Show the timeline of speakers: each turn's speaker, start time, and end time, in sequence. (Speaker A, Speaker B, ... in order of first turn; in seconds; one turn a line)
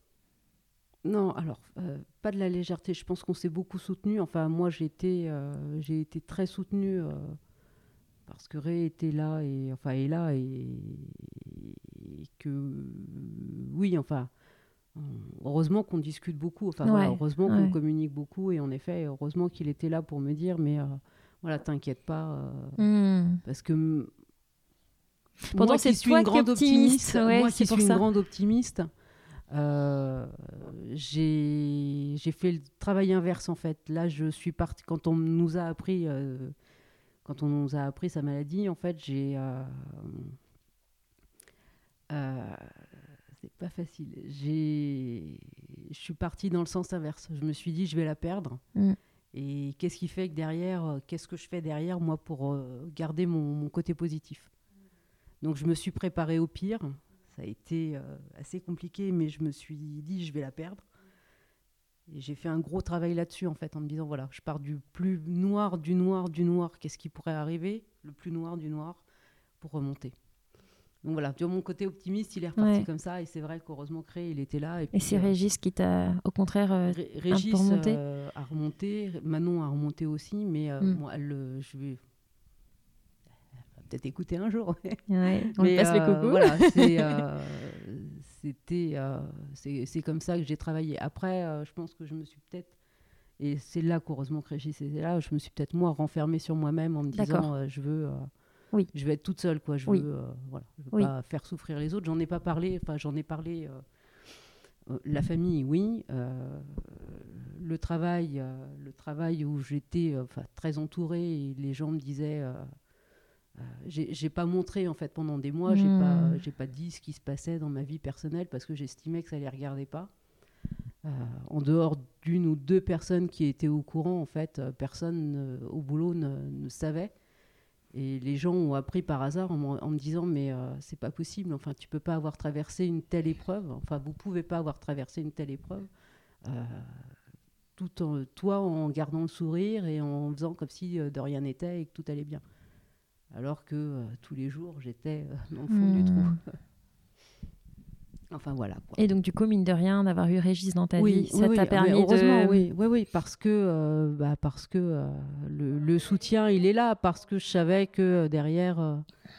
Speaker A: 1.1-7.4
Speaker A: 8.3-14.3
Speaker A: 14.9-22.8
Speaker B: 16.8-17.8
Speaker B: 22.8-23.4
Speaker A: 23.4-24.1
Speaker B: 25.5-28.0
Speaker A: 25.5-28.9
Speaker A: 29.5-36.5
Speaker A: 37.2-40.4
Speaker A: 42.1-42.9
Speaker A: 43.4-48.6
Speaker A: 49.3-54.5
Speaker A: 55.4-60.9
Speaker A: 62.1-69.0
Speaker A: 69.6-70.1
Speaker A: 71.0-75.3
Speaker B: 72.6-72.9
Speaker B: 74.9-78.0
Speaker A: 76.9-82.0
Speaker A: 83.8-85.0
Speaker B: 85.1-87.2
Speaker A: 85.5-92.8
Speaker A: 93.4-98.3
Speaker B: 97.1-97.5
Speaker A: 98.9-103.8
Speaker A: 104.9-112.7
Speaker A: 113.6-120.1
Speaker B: 115.7-116.4
Speaker A: 121.0-127.1
Speaker A: 127.9-135.9
Speaker A: 136.4-137.1
Speaker A: 137.8-142.4
Speaker A: 143.3-146.6
Speaker B: 145.7-146.4
Speaker A: 148.3-149.1
Speaker B: 149.0-152.7
Speaker A: 150.9-159.1